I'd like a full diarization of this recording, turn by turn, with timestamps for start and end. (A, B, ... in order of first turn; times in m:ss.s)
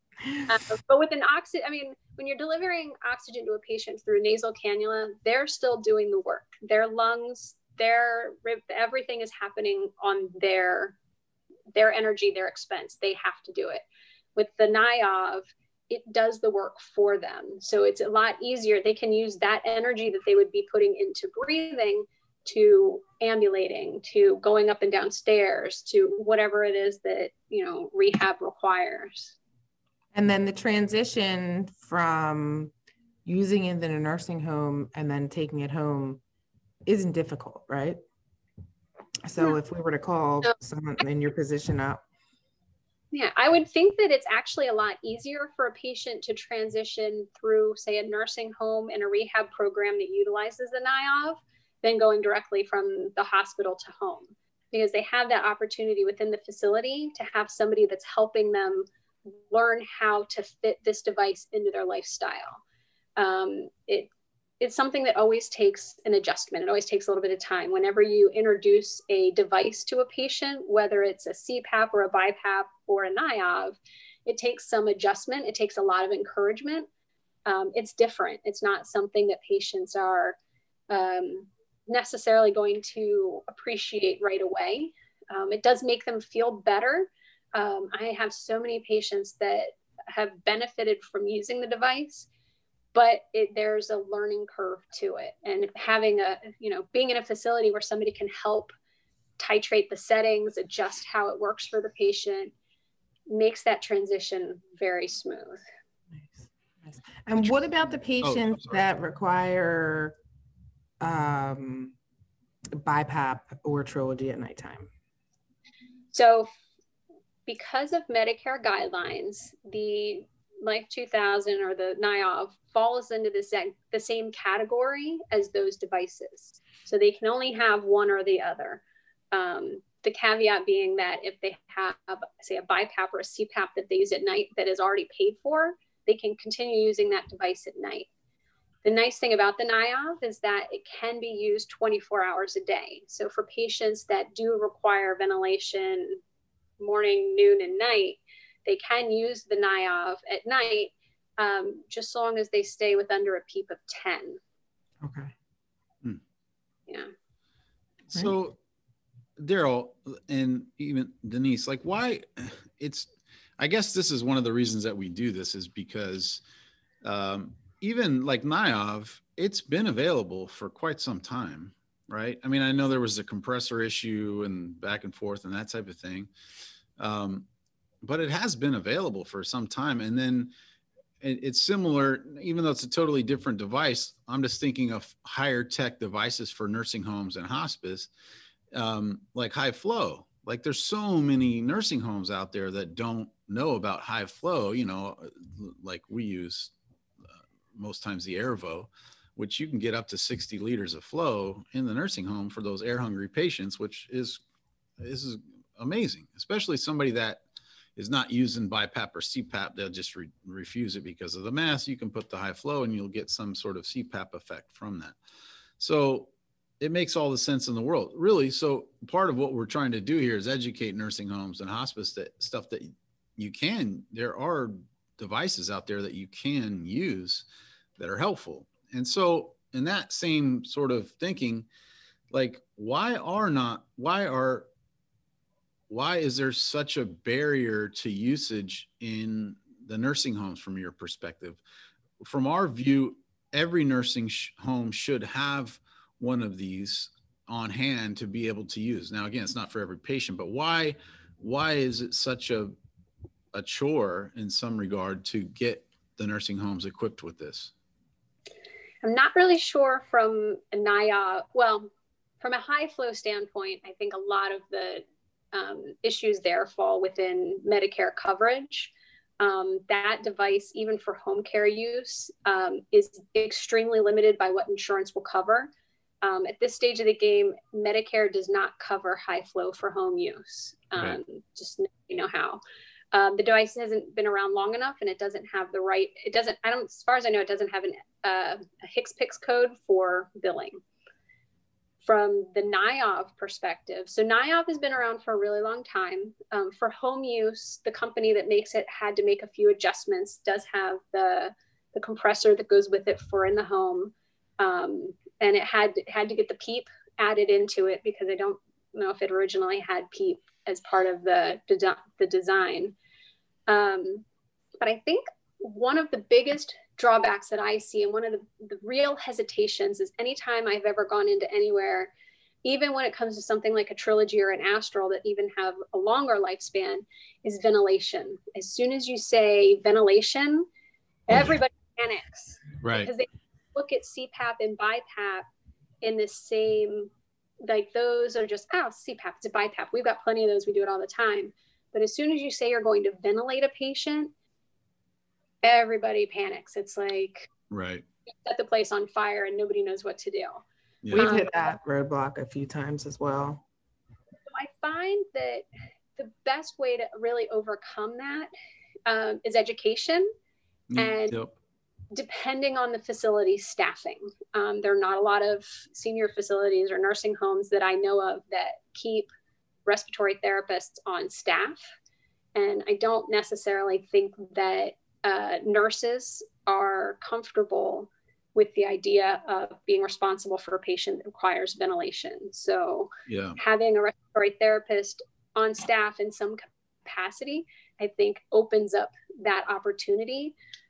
0:00.5-0:11.0 A
0:11.7-0:13.8 A
0:14.4-0:29.3 A
0:30.1-0:32.7 B
0:33.2-0:36.2 B
0:36.8-0:38.0 B
0:39.2-0:42.0 B
0:43.1-0:58.8 A
0:59.5-1:02.6 A
1:03.2-1:04.1 A
1:04.6-1:16.9 A
1:17.4-1:20.4 A
1:20.9-1:32.3 A
1:32.9-1:38.7 A
1:39.4-1:42.5 A
1:43.3-1:45.6 A
1:46.3-1:50.1 B
1:48.2-1:48.8 C
1:51.0-1:51.9 B
1:52.7-1:54.9 B
1:56.1-1:56.5 A
1:57.4-2:18.1 A
2:18.8-2:26.2 A
2:26.8-2:34.4 A
2:35.0-2:35.3 B
2:38.1-2:38.6 C
2:39.4-2:43.1 C
2:43.6-2:46.4 C
2:47.0-2:56.3 C
2:57.0-2:57.4 C
2:58.0-3:00.5 C
3:01.2-3:08.1 C
3:08.7-3:16.7 C
3:17.7-3:24.4 C
3:25.0-3:27.4 C
3:28.0-3:35.2 C
3:35.8-3:36.3 C
3:36.8-3:47.4 C
3:48.0-3:51.7 C
3:52.3-3:54.7 C
3:55.9-4:01.6 C
4:02.2-4:12.7 C
4:13.5-4:17.7 C
4:19.0-4:21.9 A
4:22.4-4:35.7 A
4:36.2-4:42.6 A
4:43.1-4:50.8 A
4:52.0-5:12.9 A
5:13.7-5:14.2 A
5:14.8-5:22.1 A
5:22.6-5:30.7 A
5:31.3-5:35.4 A
5:32.8-5:33.1 C
5:36.0-5:37.1 A
5:37.6-5:44.3 A
5:45.6-5:47.5 A
5:47.7-5:48.0 C
5:48.4-5:51.6 A
5:51.1-5:53.6 B
5:54.5-5:55.6 A
5:56.2-5:58.5 A
5:59.1-6:00.3 A
6:00.9-6:01.5 C
6:01.0-6:01.4 A
6:02.1-6:09.3 A
6:09.8-6:11.8 A
6:12.5-6:30.5 A
6:23.3-6:23.6 C